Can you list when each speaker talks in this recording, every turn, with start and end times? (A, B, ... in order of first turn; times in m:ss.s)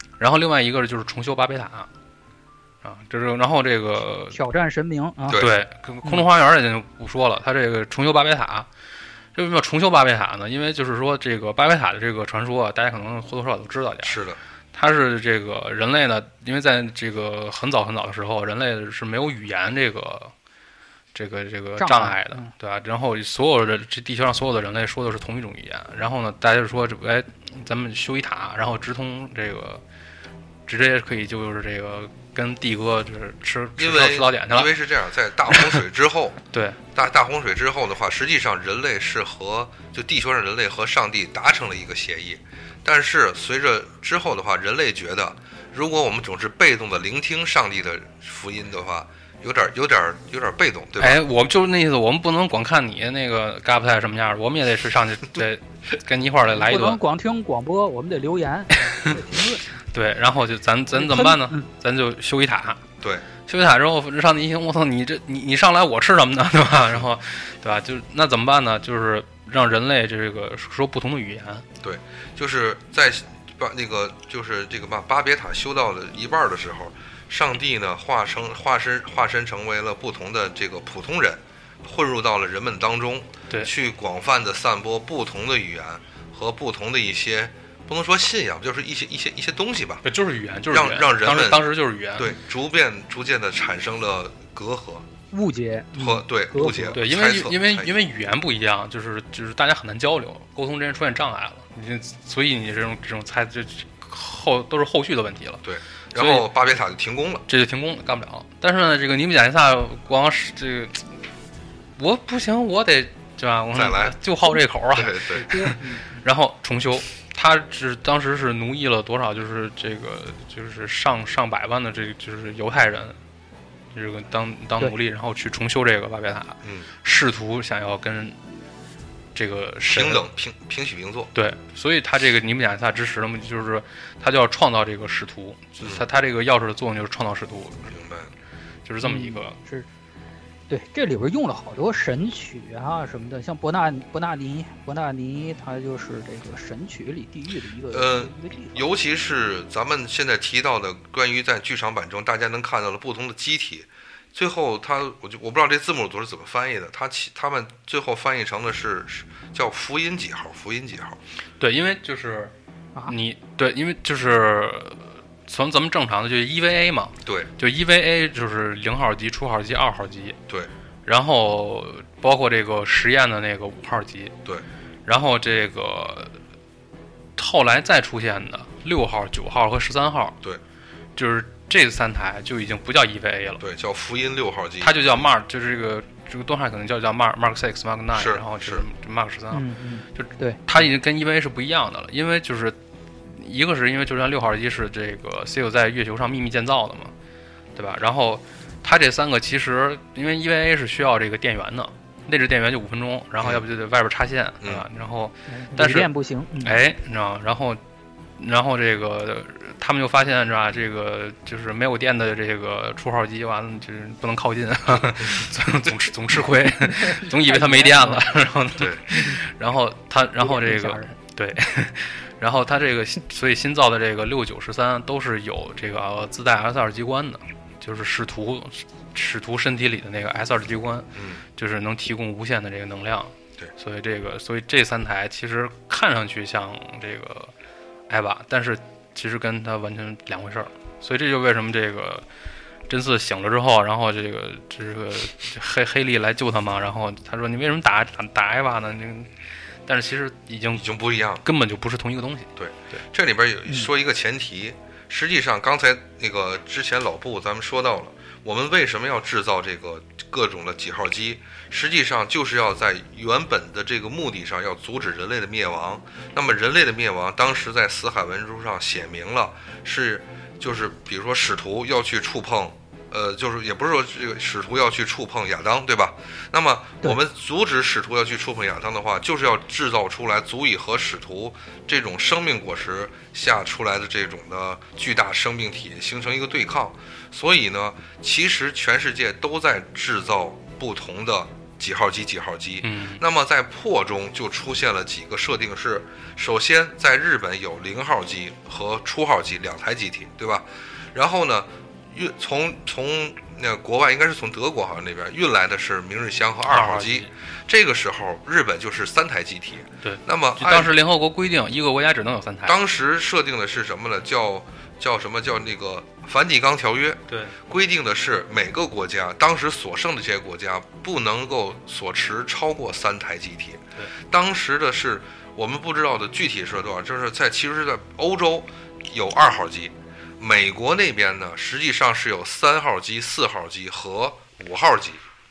0:00.2-0:01.9 A
0:02.8-0:04.4 A
0:04.3-0:05.4 B
0:05.3-0:05.6 C
0:05.4-0:08.7 A
0:09.4-0:14.2 A
0:14.0-0:14.4 C
0:14.7-0:20.3 A
0:21.2-0:29.8 A
0:21.8-0:22.5 B
0:30.7-0:34.8 A
0:33.8-0:36.4 C
0:35.5-0:35.8 A
0:36.5-0:36.8 A
0:36.9-0:51.2 C
0:51.0-0:57.0 A
0:56.5-0:59.6 B
0:58.9-0:59.2 A
0:59.9-1:02.8 A
1:00.9-1:01.6 B
1:03.0-1:03.3 C
1:03.5-1:11.7 A
1:11.8-1:30.1 C
1:30.1-1:32.3 A
1:30.7-1:35.1 C
1:35.3-1:37.0 B
1:36.0-1:37.9 C
1:37.0-1:46.5 A
1:45.6-1:47.5 C
1:47.5-1:51.2 A
1:52.0-2:03.2 A
1:53.7-1:54.2 C
1:54.9-1:55.5 C
1:55.4-1:56.1 B
2:03.9-2:08.4 A
2:06.6-2:06.9 C
2:09.4-2:10.2 A
2:09.9-2:11.3 C
2:11.3-2:17.9 A
2:17.9-2:18.3 C
2:18.9-2:19.6 A
2:19.0-2:19.9 B
2:20.7-2:28.8 B
2:27.9-2:41.2 C
2:41.6-2:42.5 A
2:43.1-2:50.4 A
2:51.1-2:54.3 A
2:55.1-2:56.4 A
2:57.4-3:00.4 A
3:01.2-3:03.6 A
3:03.6-3:05.2 C
3:04.8-3:17.1 A
3:08.1-3:08.8 C
3:09.5-3:10.6 B
3:17.8-3:26.1 A
3:25.5-3:26.8 B
3:26.6-3:27.8 A
3:28.4-3:57.5 A
3:34.9-3:35.5 C
3:36.9-3:38.3 B
3:38.8-3:39.0 C
3:39.1-3:39.4 B
3:40.4-3:41.2 B
3:51.2-3:51.4 C
3:58.1-4:02.2 A
4:02.9-4:09.3 A
4:09.9-4:10.9 A
4:10.8-4:11.4 C
4:11.4-4:12.5 A
4:12.6-5:10.9 C
4:52.8-4:53.2 A
5:06.7-5:07.3 A
5:10.0-5:12.8 A
5:12.7-5:35.2 C
5:17.3-5:17.6 A